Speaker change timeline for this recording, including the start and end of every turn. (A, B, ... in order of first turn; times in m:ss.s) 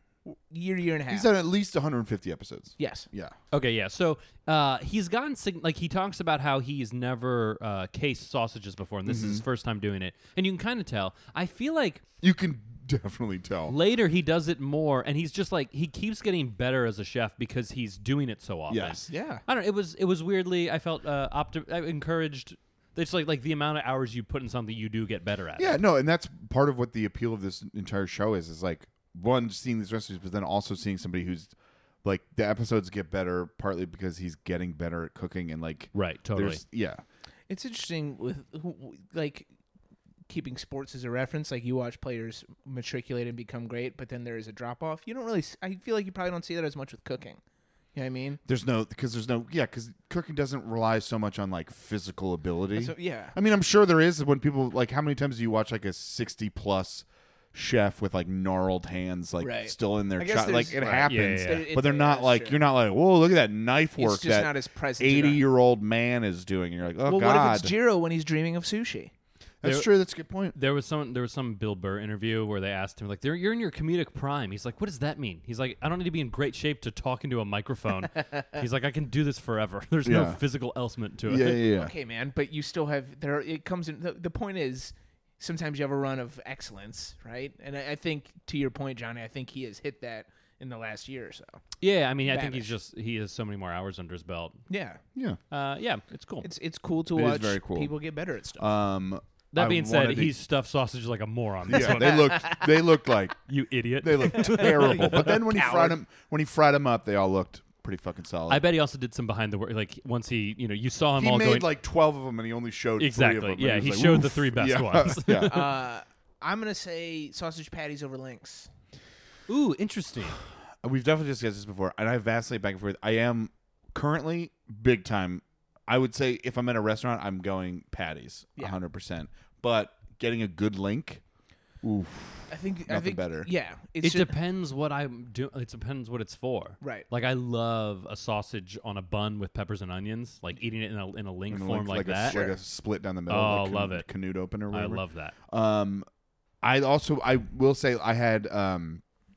0:00.2-0:01.3 A
0:01.1-0:03.4 B
0:02.8-0:03.1 A
0:03.5-0:12.0 C
0:09.0-0:09.4 B
0:12.2-0:13.7 B
0:13.7-0:25.8 C
0:18.7-0:19.1 B
0:19.1-0:19.4 A
0:25.6-0:37.0 B
0:35.9-0:36.6 C
0:37.5-0:39.5 A
0:40.3-0:47.4 A
0:47.9-0:48.4 A
0:48.4-1:07.7 B
0:52.7-0:53.3 A
0:59.4-1:02.6 A
1:01.0-1:01.7 C
1:04.0-1:05.4 A
1:07.0-1:09.1 A
1:09.6-1:10.6 B
1:09.6-1:09.9 C
1:10.5-1:21.7 C
1:20.0-1:20.4 B
1:21.2-1:21.9 B
1:21.7-1:31.6 A
1:31.8-1:34.6 C
1:32.2-1:32.7 A
1:34.7-1:35.0 A
1:35.1-1:35.4 B
1:35.5-1:36.5 C
1:36.4-1:38.7 A
1:37.1-1:37.9 B
1:38.6-1:40.4 B
1:39.5-1:42.5 C
1:41.7-1:43.4 B
1:42.1-1:42.4 A
1:43.5-1:45.4 C
1:44.0-1:48.6 B
1:44.6-1:46.0 A
1:48.5-1:51.7 C
1:51.2-1:55.7 B
1:53.0-1:55.6 C
1:55.5-1:58.7 A
1:59.5-2:00.4 C
2:00.8-2:11.2 B
2:11.8-2:13.5 B
2:12.5-2:14.3 A
2:14.0-2:22.4 C
2:16.8-2:17.0 A
2:21.5-2:26.0 B
2:22.2-2:22.6 A
2:23.3-2:24.1 C
2:24.7-2:25.3 C
2:26.6-2:29.0 B